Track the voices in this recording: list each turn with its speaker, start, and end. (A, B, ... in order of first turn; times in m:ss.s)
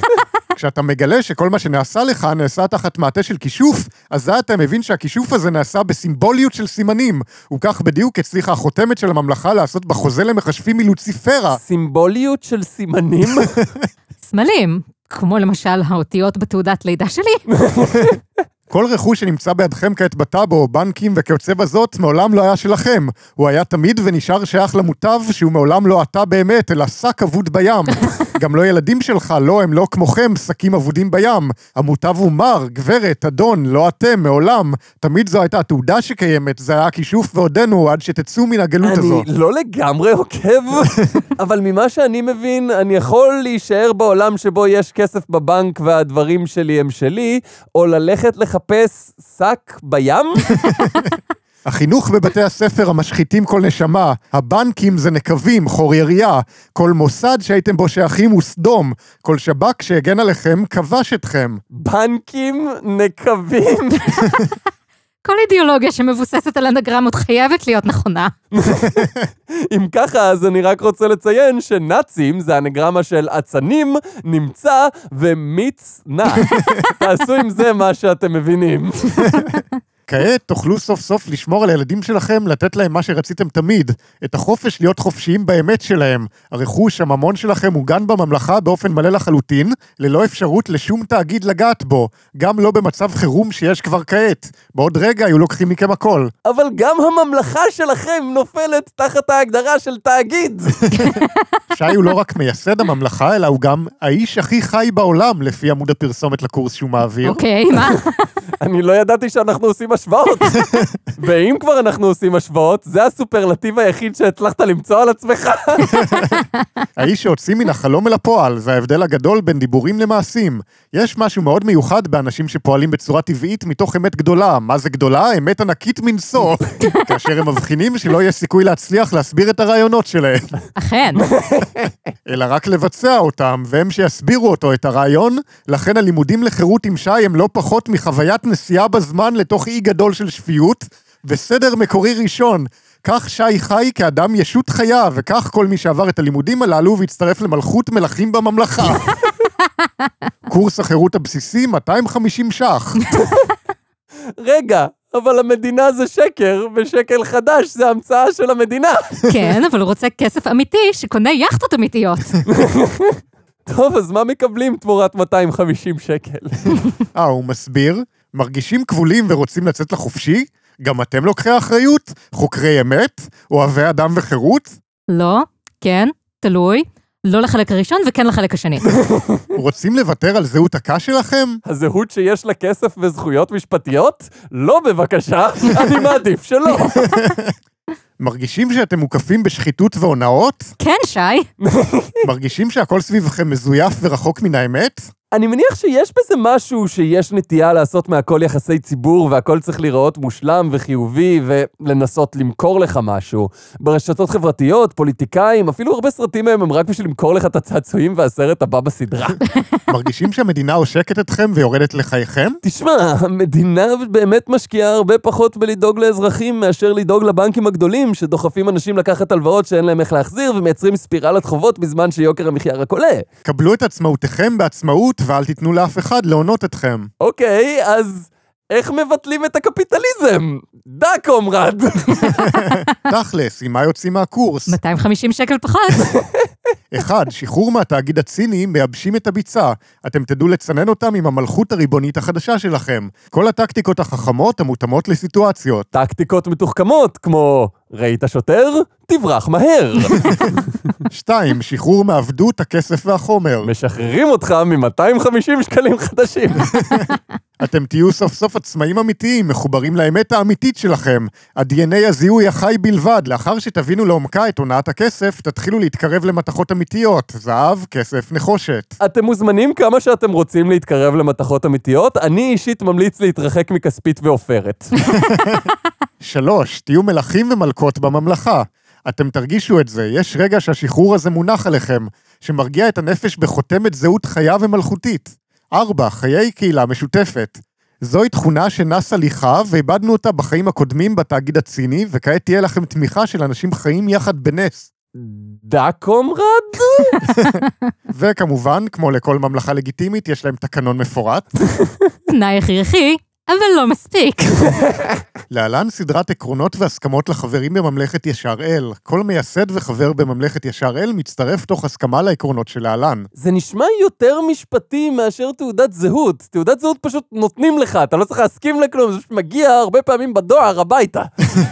0:00.5-0:11.6 A
0:11.5-0:13.5 B
0:14.2-0:17.4 C
0:17.5-0:18.2 B
0:18.7-0:39.2 A
0:38.8-0:50.6 B
0:50.7-0:51.0 A
0:51.6-1:01.6 A
1:01.7-1:04.3 B
1:05.2-1:08.3 C
1:08.5-1:09.0 B
1:09.6-1:19.3 B
1:16.5-1:16.9 A
1:19.4-1:19.6 C
1:20.1-1:36.3 A
1:36.4-1:40.8 B
1:40.9-1:41.2 A
1:40.9-1:42.1 C
1:41.7-1:47.4 A
1:47.2-1:48.2 C
1:48.6-1:56.0 B
1:56.0-1:56.4 A
1:57.0-2:10.6 A
2:10.8-2:11.3 C
2:11.2-2:11.9 B
2:12.2-2:29.0 A
2:30.5-2:33.0 A
2:33.1-2:33.5 B
2:34.4-2:39.1 B
2:39.3-2:42.4 C
2:42.5-2:46.7 B
2:47.1-2:54.7 A
2:55.1-2:58.9 C
2:59.0-2:59.4 B
2:59.5-3:01.6 A
3:01.6-3:07.1 B
3:07.0-3:07.5 A
3:08.2-3:10.7 A
3:10.8-3:11.5 C
3:11.6-3:12.2 B
3:12.2-3:15.1 A
3:15.3-3:29.4 B
3:29.9-3:32.6 A
3:32.6-3:43.2 B
3:43.4-3:47.1 A
3:47.2-3:52.5 B
3:52.4-3:54.8 A
3:54.7-3:56.1 C
3:56.9-4:05.9 A
4:05.9-4:10.7 B
4:11.1-4:13.7 A
4:13.6-4:16.7 B
4:16.8-4:17.1 A
4:17.6-4:29.0 A
4:29.0-4:34.9 B
4:35.1-4:35.7 A
4:36.2-4:54.9 A
4:55.1-4:57.2 B
4:57.3-5:01.5 A
5:02.3-5:04.8 C
5:04.7-5:05.1 B
5:05.5-5:13.3 A
5:13.4-5:21.3 B